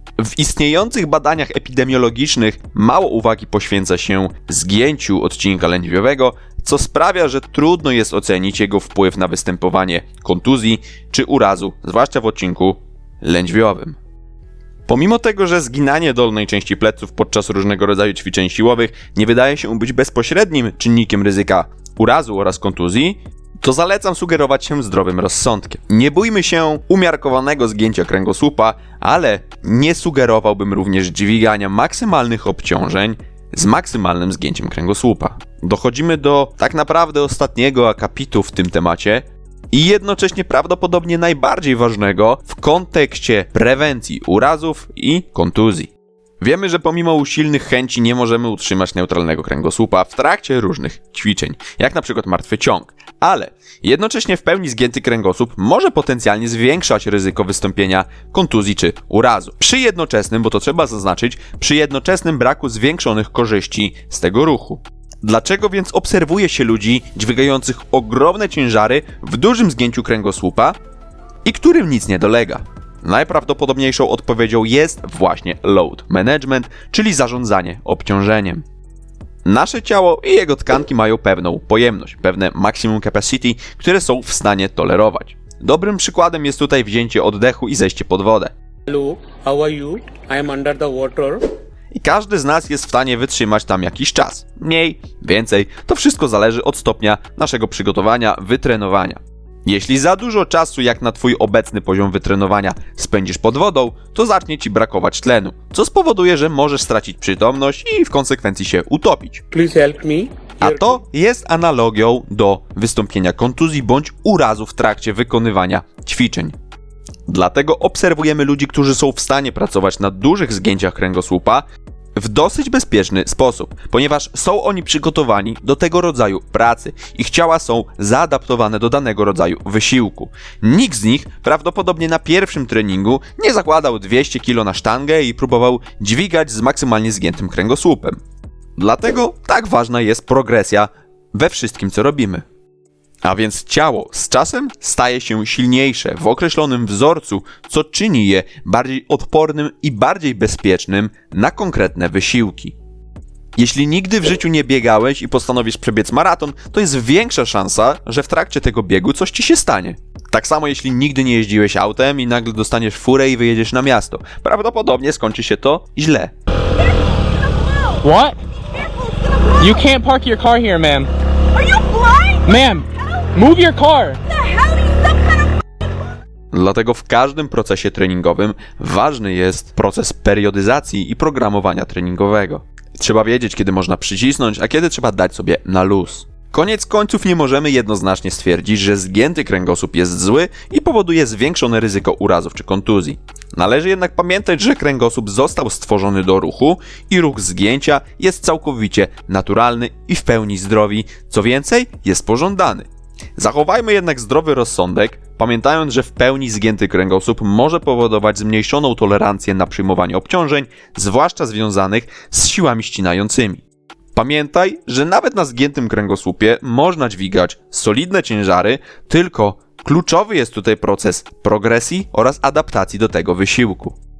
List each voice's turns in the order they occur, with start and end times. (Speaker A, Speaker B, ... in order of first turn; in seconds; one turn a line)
Speaker A: 0.2-14.0
Speaker A: 14.9-70.8
Speaker A: 71.5-78.6
Speaker A: 79.5-88.5
Speaker B: 88.9-91.5
Speaker A: 91.9-109.4
Speaker B: 109.5-110.8
Speaker A: 110.6-116.5
Speaker A: 117.3-121.6
Speaker A: 122.2-138.2
Speaker A: 138.8-142.4
Speaker A: 143.2-152.8
Speaker A: 153.6-166.3
Speaker C: 169.8-171.0
Speaker B: 172.1-172.4
Speaker C: 172.8-174.2
Speaker A: 176.5-213.6
Speaker A: 214.1-224.0